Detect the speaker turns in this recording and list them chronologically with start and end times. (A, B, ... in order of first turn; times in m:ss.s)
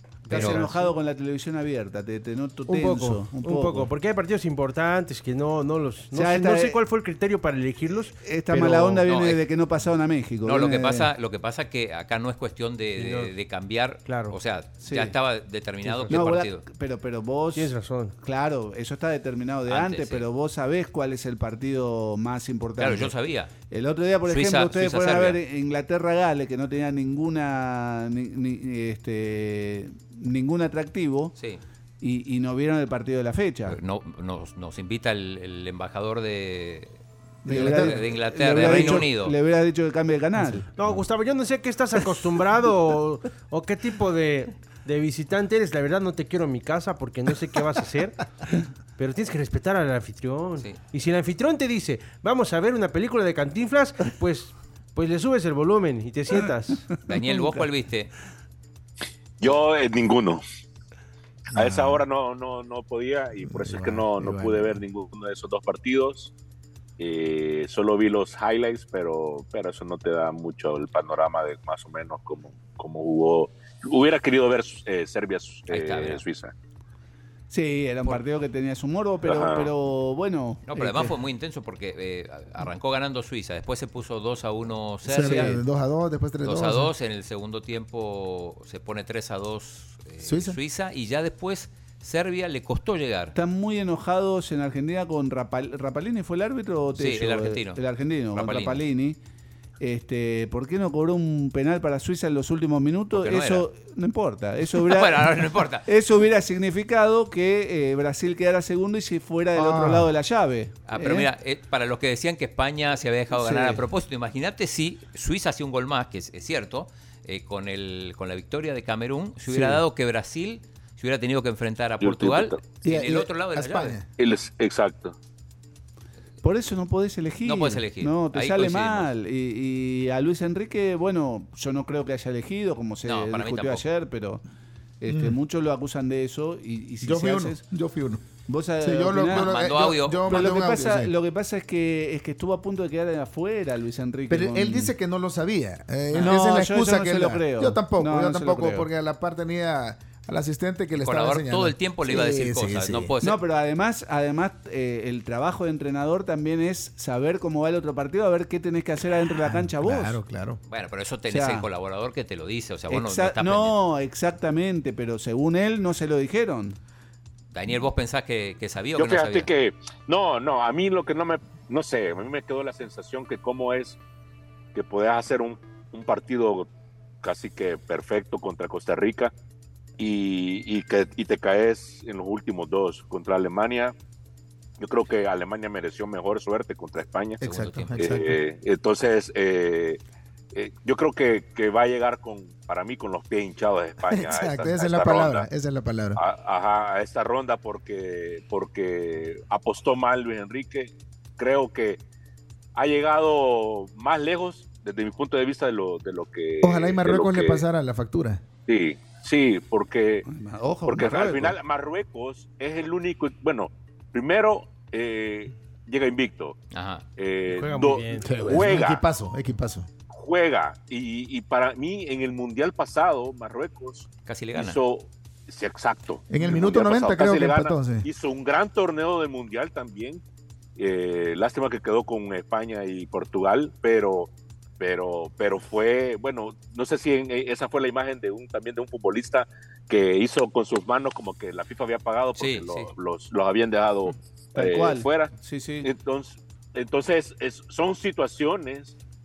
0:00.2-0:00.9 A
0:00.3-0:03.9 B
0:00.3-0:00.7 C
0:02.7-0:09.0 A
0:06.1-0:06.8 B
0:08.2-0:11.1 B
0:08.9-0:09.4 C
0:10.4-0:16.6 C
0:13.0-0:13.3 A
0:14.0-0:14.4 A
0:14.8-0:15.1 B
0:15.8-0:16.2 A
0:16.1-0:17.7 B
0:17.5-0:18.1 A
0:18.2-0:23.1 B
0:19.6-0:20.2 C
0:22.8-0:23.5 C
0:23.7-0:31.3 B
0:24.2-0:25.4 C
0:32.0-0:33.8 B
0:33.7-0:39.4 C
0:37.4-0:38.0 D
0:37.4-0:40.6 B
0:40.4-0:40.6 D
0:40.8-0:48.2 A
0:49.0-0:56.8 A
0:57.0-0:58.1 C
0:57.1-0:57.6 B
0:59.4-1:00.4 E
1:01.5-1:02.0 D
1:01.5-1:06.3 E
1:03.4-1:04.8 D
1:07.0-1:16.5 E
1:15.7-1:16.2 C
1:17.5-1:21.1 B
1:19.2-1:19.7 E
1:20.7-1:25.6 C
1:25.0-1:26.9 D
1:25.2-1:25.6 B
1:26.4-1:33.3 C
1:30.2-1:30.6 D
1:33.3-1:39.2 B
1:36.9-1:37.8 C
1:38.3-1:38.8 C
1:39.8-1:51.3 B
1:43.1-1:43.6 C
1:44.7-1:45.9 C
1:49.5-1:50.1 D
1:50.9-2:04.0 C
1:53.3-1:53.8 B
1:59.5-1:59.8 B
2:02.0-2:02.6 E
2:02.8-2:04.0 D
2:04.2-2:05.1 E
2:06.4-2:14.4 B
2:07.4-2:09.1 C
2:13.0-2:13.8 C
2:15.0-2:17.6 B
2:15.1-2:15.4 D
2:17.0-2:18.2 D
2:18.5-2:19.6 B
2:18.8-2:21.1 D
2:19.3-2:20.6 C
2:20.2-2:24.9 B
2:24.3-2:33.1 D
2:26.1-2:28.9 B
2:31.0-2:33.4 C
2:33.2-2:40.2 B
2:39.4-2:40.6 D
2:40.7-2:43.8 C
2:41.3-2:41.6 B
2:42.9-2:46.8 B
2:47.5-2:49.5 C
2:49.0-2:54.0 E
2:54.7-2:56.7 E
2:57.2-2:59.3 E
3:00.0-3:03.9 E
3:04.8-3:07.4 E
3:07.4-3:08.4 D
3:07.4-3:08.1 C
3:08.0-3:10.0 E
3:10.5-3:15.4 E
3:14.1-3:16.2 D
3:16.2-3:22.0 E
3:22.7-3:27.6 E
3:26.6-3:28.4 D
3:28.6-3:30.2 E
3:30.3-3:31.6 B
3:30.8-3:36.6 E
3:36.7-3:37.0 C
3:37.2-3:39.0 E
3:37.5-3:38.5 A
3:38.2-3:39.9 D
3:40.1-3:50.2 E
3:44.2-3:44.8 C
3:46.3-3:48.1 D
3:50.8-4:05.3 E
4:02.4-4:02.9 C
4:04.5-4:05.9 B
4:05.8-4:09.0 E